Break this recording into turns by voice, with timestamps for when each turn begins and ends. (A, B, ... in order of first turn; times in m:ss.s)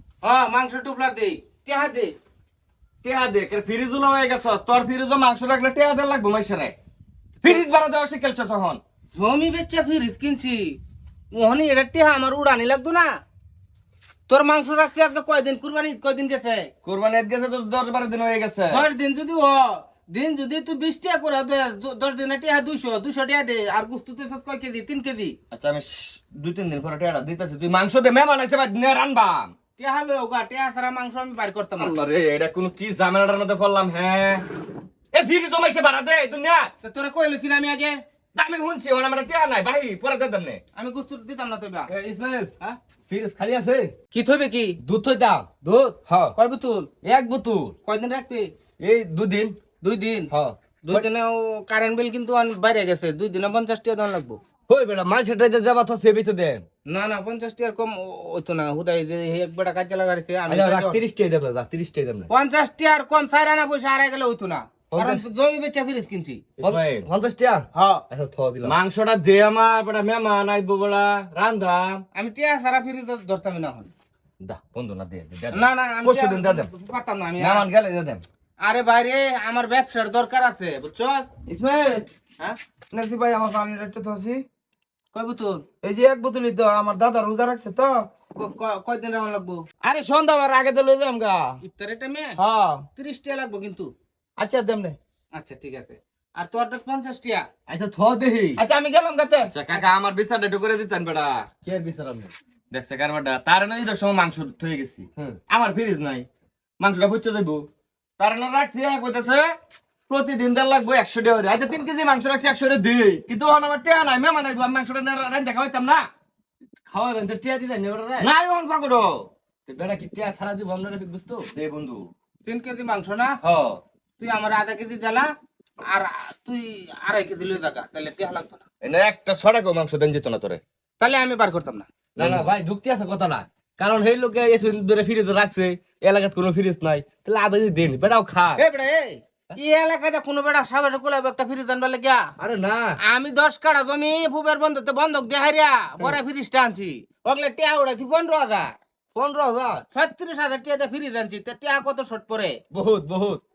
0:00.2-0:02.1 A
0:03.0-0:06.7 B
0:07.4-0:07.7 A
0:07.4-0:08.8 B
0:09.2-0:10.8 A
0:11.3-0:13.1 A
0:14.3-0:16.7 A
0:16.8-0:18.8 B
0:18.7-0:25.3 A
0:25.5-0:29.5 B
0:29.8-0:31.9 A
0:31.8-0:34.4 B
0:35.1-0:36.7 B
0:36.8-0:38.0 A
0:38.3-0:40.6 B
0:40.8-0:41.9 A
0:41.9-0:42.5 C
0:43.1-0:43.9 C
0:44.1-0:44.8 A
0:44.8-0:45.5 C
0:45.6-0:46.9 A
0:46.1-0:46.3 C
0:47.0-0:47.7 C
0:47.8-0:48.5 A
0:48.8-0:49.5 C
0:49.8-0:50.3 A
0:50.3-0:51.0 C
0:50.8-0:54.4 A
0:54.7-0:56.6 C
0:56.9-1:01.0 A
1:00.5-1:02.3 C
1:02.3-1:06.5 A
1:04.9-1:05.2 C
1:06.6-1:08.7 C
1:06.6-1:07.1 B
1:07.7-1:08.0 A
1:08.6-1:12.0 B
1:12.1-1:13.9 A
1:14.4-1:16.7 B
1:15.5-1:17.6 A
1:17.4-1:18.2 B
1:18.6-1:21.3 A
1:21.5-1:22.0 C
1:22.9-1:23.2 C
1:22.9-1:24.4 D
1:25.1-1:25.7 A
1:25.8-1:28.0 D
1:25.9-1:27.5 C
1:28.4-1:29.6 A
1:29.8-1:31.6 C
1:31.6-1:32.4 A
1:32.4-1:32.8 C
1:33.0-1:33.9 A
1:34.4-1:35.0 C
1:35.3-1:37.5 A
1:37.7-1:38.6 C
1:38.6-1:39.3 D
1:39.5-1:41.5 B
1:41.6-1:42.3 C
1:42.7-1:46.3 B
1:46.8-1:47.6 B
1:48.2-1:49.4 B
1:50.1-1:56.0 B
1:56.9-1:58.3 C
1:58.2-1:59.1 B
1:59.7-2:01.5 C
2:01.5-2:02.0 B
2:02.4-2:03.4 A
2:03.4-2:03.8 B
2:04.2-2:05.3 A
2:05.9-2:08.6 A
2:08.8-2:10.6 B
2:11.0-2:11.9 A
2:12.2-2:18.6 C
2:12.2-2:12.5 B
2:18.6-2:22.3 A
2:22.4-2:23.0 C
2:23.0-2:28.7 A
2:29.1-2:29.8 C
2:29.9-2:32.6 A
2:32.7-2:33.4 C